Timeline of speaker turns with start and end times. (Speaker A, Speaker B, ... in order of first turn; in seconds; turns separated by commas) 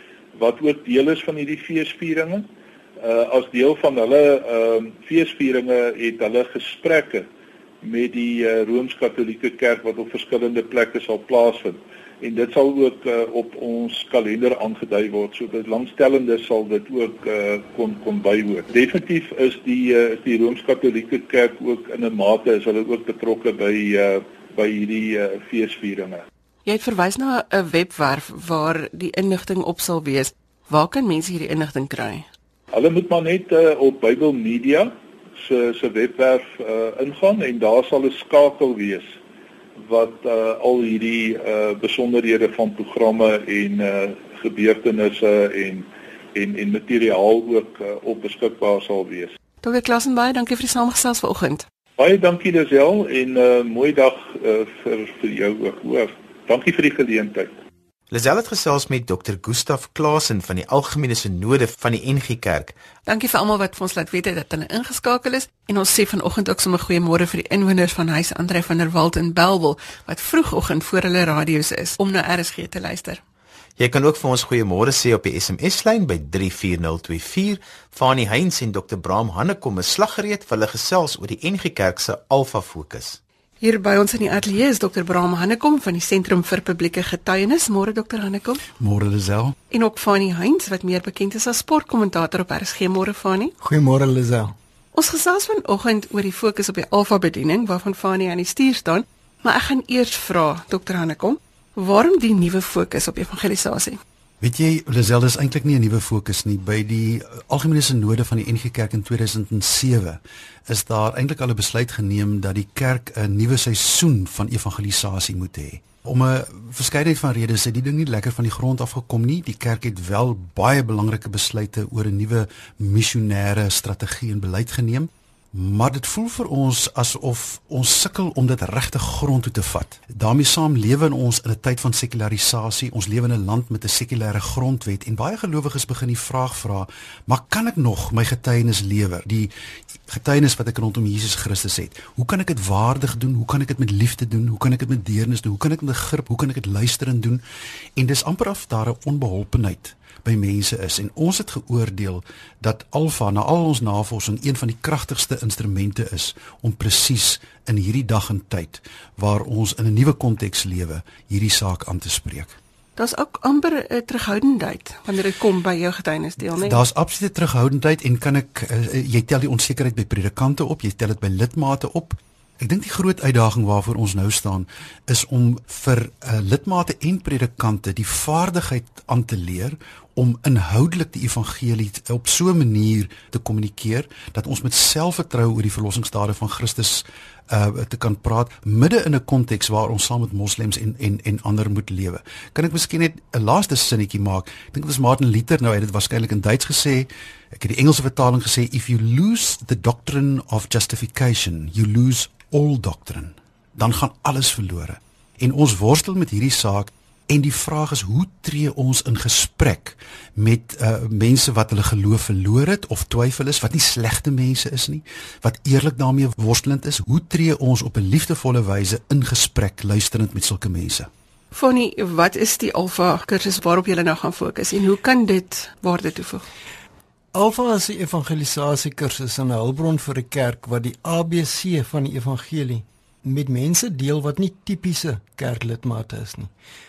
Speaker A: 0.3-2.5, Speaker A: 3.0-7.3, Speaker A: 7.8-26.2, Speaker B: 26.6-32.2, Speaker A: 32.7-39.1, Speaker A: 39.8-49.3, Speaker B: 49.6-51.6, Speaker A: 52.0-57.5, Speaker C: 58.1-62.7, Speaker B: 63.0-73.2, Speaker C: 73.8-83.2, Speaker B: 83.6-88.6, Speaker D: 88.8-89.5, Speaker B: 89.7-93.5, Speaker E: 93.6-94.5, Speaker B: 94.9-104.0, Speaker D: 104.4-139.5, Speaker D: 140.1-147.4, Speaker D: 147.9-162.6, Speaker B: 163.0-166.8, Speaker D: 166.5-221.1, Speaker B: 221.5-226.4, Speaker E: 227.3-236.5